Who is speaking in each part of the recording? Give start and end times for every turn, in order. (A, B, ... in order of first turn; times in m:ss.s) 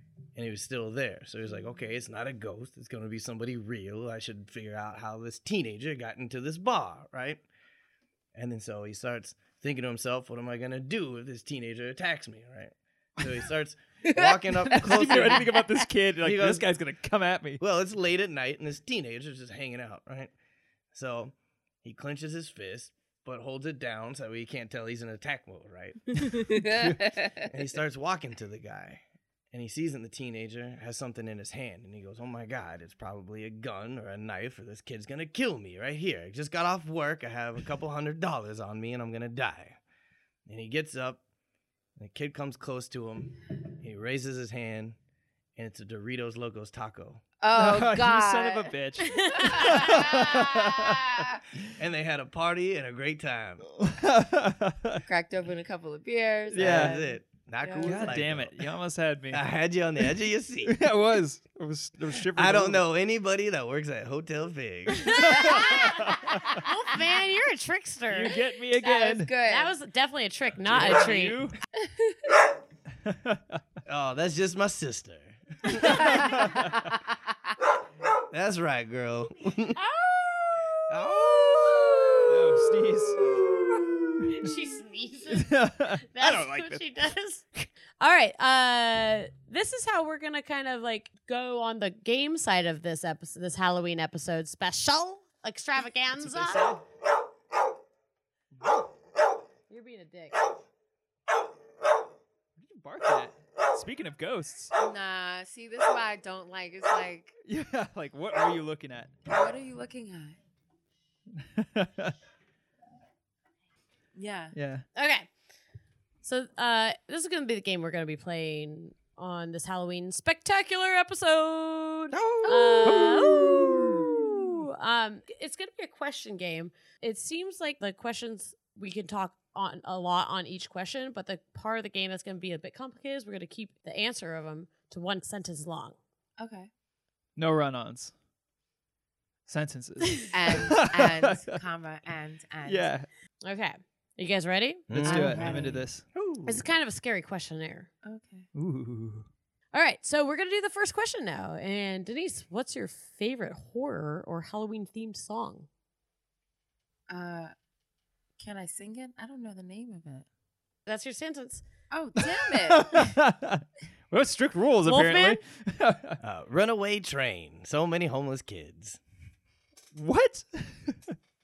0:00.4-0:07.4 A
0:08.3-0:15.6 A
0:14.1-0:15.5 B
0:14.7-0:17.6 C
0:16.2-0:16.7 A
0:17.6-0:20.3 A
0:20.9-0:26.6 A
0:26.2-0:27.5 B
0:27.4-0:39.8 A
0:40.5-0:41.2 A
0:42.0-0:45.0 A
0:45.6-0:47.2 A
0:47.4-0:51.4 B
0:47.6-0:51.3 C
0:49.2-0:49.9 D
0:51.8-0:53.7 A
0:53.8-0:55.0 C
0:55.0-0:58.2 B
0:56.5-0:57.0 C
0:56.6-0:58.7 A
0:57.8-0:59.4 C
0:59.3-1:00.8 A
1:00.6-1:02.8 C
1:02.3-1:05.8 A
1:05.2-1:06.6 B
1:05.2-1:08.4 D
1:05.2-1:06.3 C
1:08.1-1:09.3 C
1:08.4-1:09.7 B
1:09.4-1:11.4 D
1:10.6-1:11.6 C
1:11.8-1:12.4 B
1:13.1-1:13.6 C
1:13.9-1:16.2 A
1:15.7-1:17.2 B
1:15.8-1:16.8 C
1:18.3-1:19.8 A
1:19.9-1:22.5 B
1:20.9-1:22.4 A
1:22.3-1:23.2 C
1:24.3-1:27.5 D
1:25.3-1:26.9 C
1:28.0-1:36.7 D
1:36.2-1:36.8 C
1:38.6-1:38.9 C
1:39.7-1:40.4 D
1:42.6-1:44.7 C
1:44.8-1:47.4 B
1:47.5-1:49.1 C
1:49.3-1:50.4 B
1:51.4-1:52.1 C
1:54.2-1:54.6 B
1:54.5-1:54.8 C
1:55.0-1:55.3 D
1:56.2-2:16.0 D
2:02.1-2:03.2 A
2:02.4-2:04.2 C
2:16.4-2:16.7 B
2:17.4-2:18.1 C
2:19.5-2:21.6 C
2:20.3-2:22.9 B
2:22.6-2:23.1 C
2:23.4-2:25.6 D
2:24.9-2:26.6 A
2:25.0-2:26.0 C
2:25.1-2:25.8 B
2:26.5-2:27.9 D
2:28.0-2:28.5 B
2:28.6-2:29.3 C
2:29.7-2:35.7 D
2:37.1-2:37.5 B
2:38.4-2:40.3 B
2:40.9-2:41.6 D
2:41.9-2:43.1 B
2:42.3-2:46.2 C
2:44.9-2:45.4 D
2:46.2-2:49.0 A
2:49.9-2:51.1 C